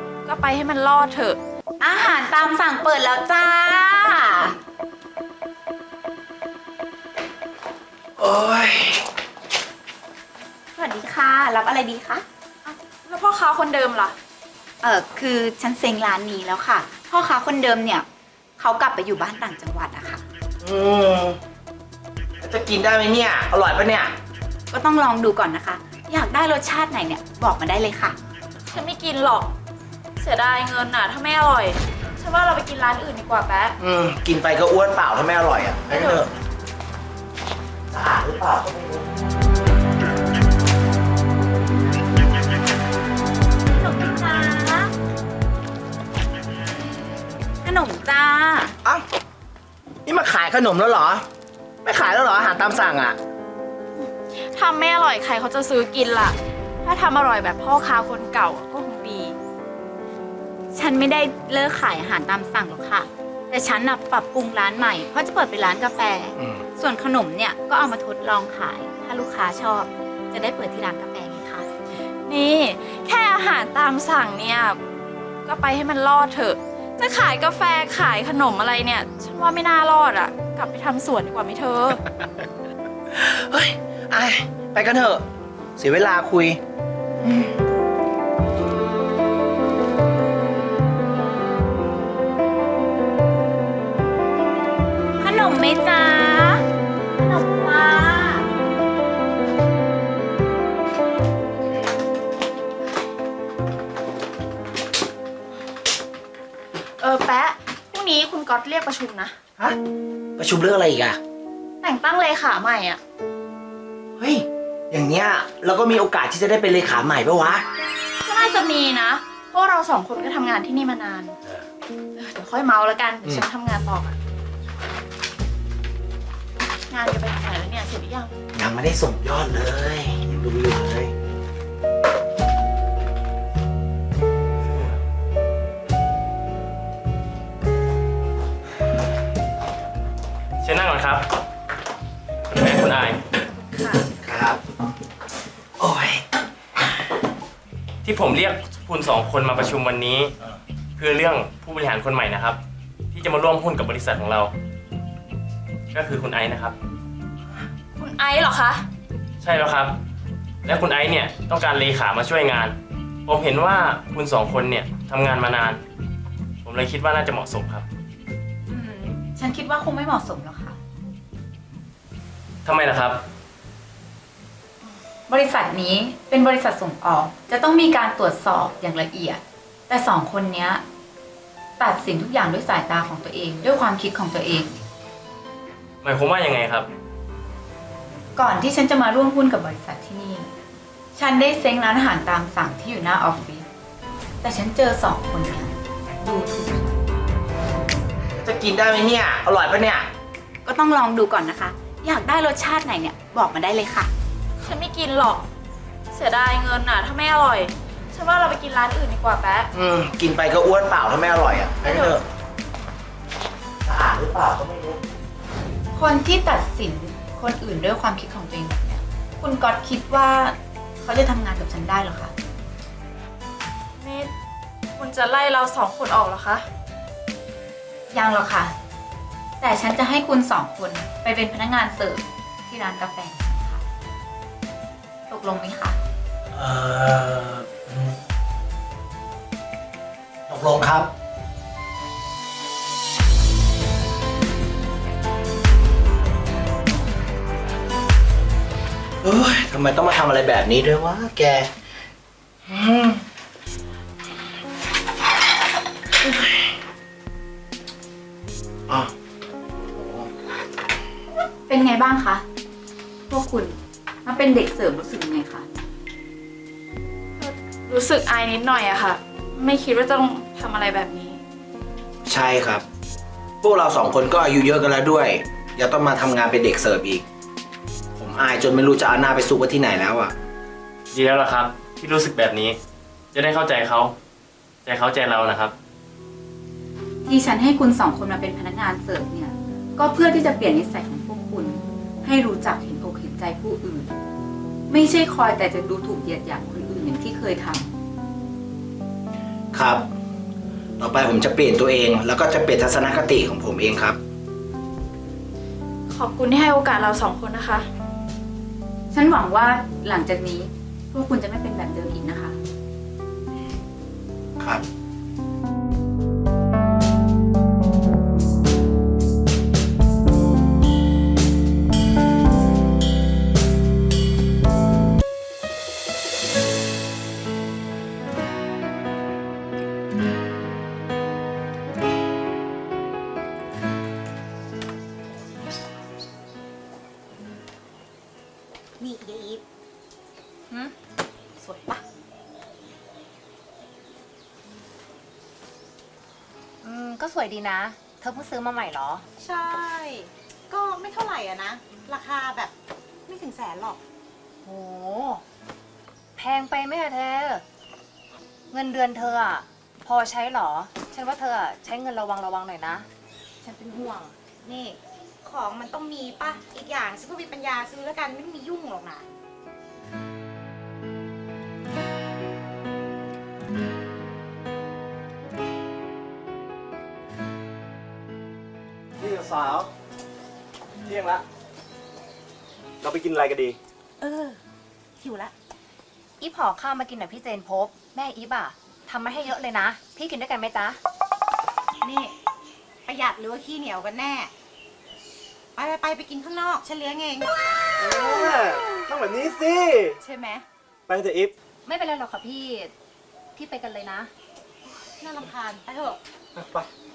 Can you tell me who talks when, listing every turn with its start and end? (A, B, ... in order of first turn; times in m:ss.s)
0:00.2-0:01.4 A
0:01.8-0:04.5 B
0:08.2-0:09.0 C
0:10.7-0:12.2 B
0:12.6-0:14.2 A
0:14.8-0:18.0 B
0:18.6-0:20.2 B
0:20.6-0:21.4 C
0:22.4-0:24.1 C
0:24.7-0:28.1 B
0:28.7-0:29.5 A
0:30.2-0:33.8 A
0:33.8-0:36.3 C
0:35.9-0:36.2 A
0:37.9-0:39.0 C
0:43.8-0:44.9 B
0:47.6-0:48.8 B
0:50.0-0:51.3 C
0:51.8-0:53.2 C
0:54.0-0:59.4 A
1:00.7-1:11.7 B
1:06.4-1:06.6 C
1:12.2-1:14.8 A
1:15.4-1:22.0 A
1:23.1-1:25.2 C
1:25.8-1:26.6 C
1:35.2-1:36.6 B
1:37.2-1:38.4 B
1:47.0-1:49.4 A
1:50.4-1:51.2 C
1:51.8-1:53.0 A
1:54.2-1:57.6 C
1:58.2-2:01.4 A
2:02.2-2:04.2 A
2:06.9-2:08.3 A
2:08.5-2:11.1 C
2:20.6-2:21.3 D
2:22.5-2:23.2 D
2:23.7-2:24.1 A
2:24.2-2:24.6 C
2:25.8-2:26.2 C
2:28.0-2:30.3 D
2:31.0-2:32.6 D
2:33.1-2:34.5 D
2:35.9-2:36.7 D
2:38.0-2:38.8 A
2:39.4-2:40.0 D
2:40.6-2:42.7 D
2:43.2-2:45.8 D
2:46.6-2:47.8 D
2:48.7-2:50.8 B
2:52.6-2:53.2 D
2:55.3-3:00.8 B
3:01.8-3:04.7 B
3:06.0-3:06.9 D
3:08.3-3:10.5 B
3:11.1-3:13.6 B
3:14.4-3:17.0 B
3:18.4-3:20.1 C
3:20.6-3:24.1 B
3:24.6-3:25.4 A
3:26.1-3:29.7 A
3:29.7-3:32.2 C
3:31.8-3:32.2 A
3:33.8-3:35.0 C
3:35.9-3:42.3 B
3:44.0-3:44.3 A
3:45.0-3:46.6 A
3:48.1-3:48.7 B
3:49.6-3:53.8 B
3:55.3-3:56.0 B
3:56.5-3:58.1 C
4:00.5-4:01.1 C
4:09.2-4:11.7 C
4:12.7-4:13.2 C
4:16.3-4:16.6 C
4:18.9-4:19.1 C
4:19.9-4:20.3 C
4:21.7-4:22.4 B
4:23.3-4:25.6 B
4:27.4-4:31.4 A
4:32.2-4:32.8 C
4:33.6-4:37.2 C
4:38.2-4:40.3 C
4:41.1-4:42.8 D
4:43.3-4:44.1 D
4:44.8-4:45.7 D
4:47.2-4:54.1 B
4:54.9-4:57.9 B
4:59.7-5:00.1 C
5:01.0-5:04.2 C
5:06.1-5:07.9 A
5:09.1-5:12.6 B
5:14.6-5:14.8 C
5:39.0-5:39.6 E
5:41.6-5:42.0 E
5:46.8-5:49.2 F
5:49.4-5:52.7 E
5:53.2-5:54.0 E
5:54.6-5:55.4 F
5:56.4-5:57.6 F
5:58.7-6:03.0 F
6:03.6-6:09.2 E
6:19.2-6:19.9 G
6:21.0-6:21.4 G
6:23.0-6:23.8 G
6:24.2-6:24.6 E
6:25.2-6:25.5 E
6:26.4-6:31.0 F
6:32.0-6:32.3 E
6:33.0-6:34.5 E
6:35.7-6:37.5 E
6:38.0-6:40.2 G
6:40.2-6:40.6 E
6:41.1-6:41.5 G
6:41.8-6:42.9 F
6:43.5-6:44.3 F
6:45.2-6:46.2 E